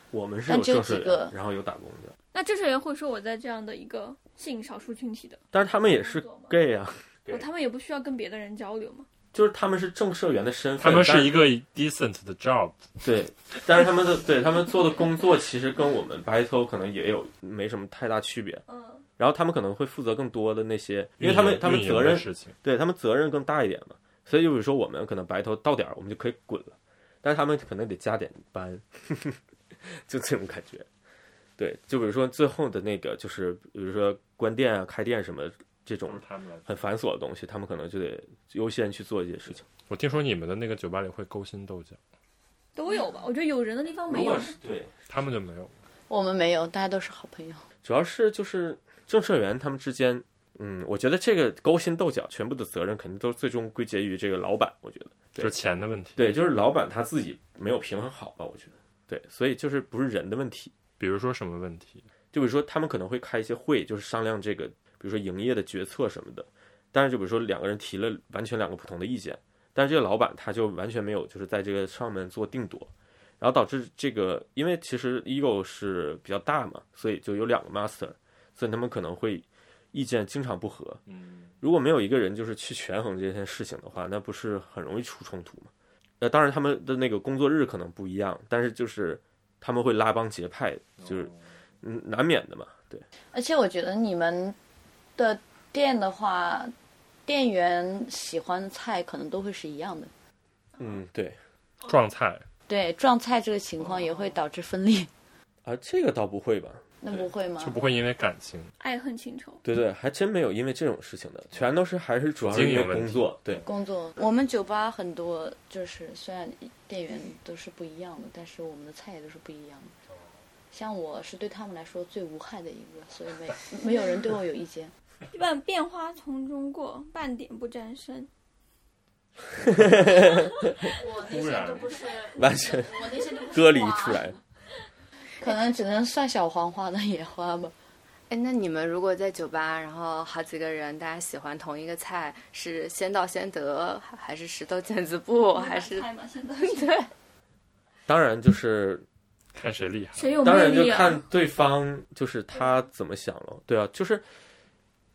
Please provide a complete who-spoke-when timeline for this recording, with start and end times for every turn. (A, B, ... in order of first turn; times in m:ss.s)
0:00.1-0:02.1 A
0:00.5-0:01.3 B
0:02.3-0:06.5 C
0:05.5-0:07.4 A
0:07.3-0:09.1 C
0:09.3-0:11.5 A
0:10.8-0:12.8 D
0:13.0-0:18.6 A
0:18.7-0:19.0 C
0:19.2-0:30.9 A
0:21.2-0:22.6 D
0:31.6-0:39.6 A
0:36.1-0:36.7 D
0:39.9-0:42.0 D
0:42.8-0:44.6 C
0:44.1-0:44.9 A
0:45.1-0:45.7 D
0:46.1-0:47.7 B
0:47.8-0:55.6 A
0:55.4-0:56.3 D
0:56.2-1:00.7 A
1:01.0-1:02.0 D
1:02.3-1:21.0 A
1:21.1-1:21.6 D
1:21.6-1:33.1 A
1:31.0-1:31.5 D
1:33.3-1:34.6 B
1:35.2-1:36.7 B
1:37.3-1:40.1 B
1:40.8-1:41.4 A
1:41.8-1:42.5 D
1:42.7-1:45.1 B
1:45.6-1:46.9 A
1:47.0-1:47.8 B
1:47.6-1:48.7 D
1:48.8-1:49.6 C
1:49.6-1:53.6 A
1:52.5-1:53.6 D
1:53.7-1:59.9 B
2:00.7-2:04.9 B
2:05.3-2:08.3 C
2:09.6-2:10.9 A
2:11.0-2:13.7 B
2:11.2-2:12.0 D
2:12.3-2:14.4 A
2:15.4-2:17.8 B
2:18.3-2:26.1 E
2:25.5-2:27.1 C
2:26.6-2:27.1 E
2:28.1-2:29.0 A
2:29.5-2:30.3 D
2:30.2-2:31.2 C
2:30.4-2:34.3 A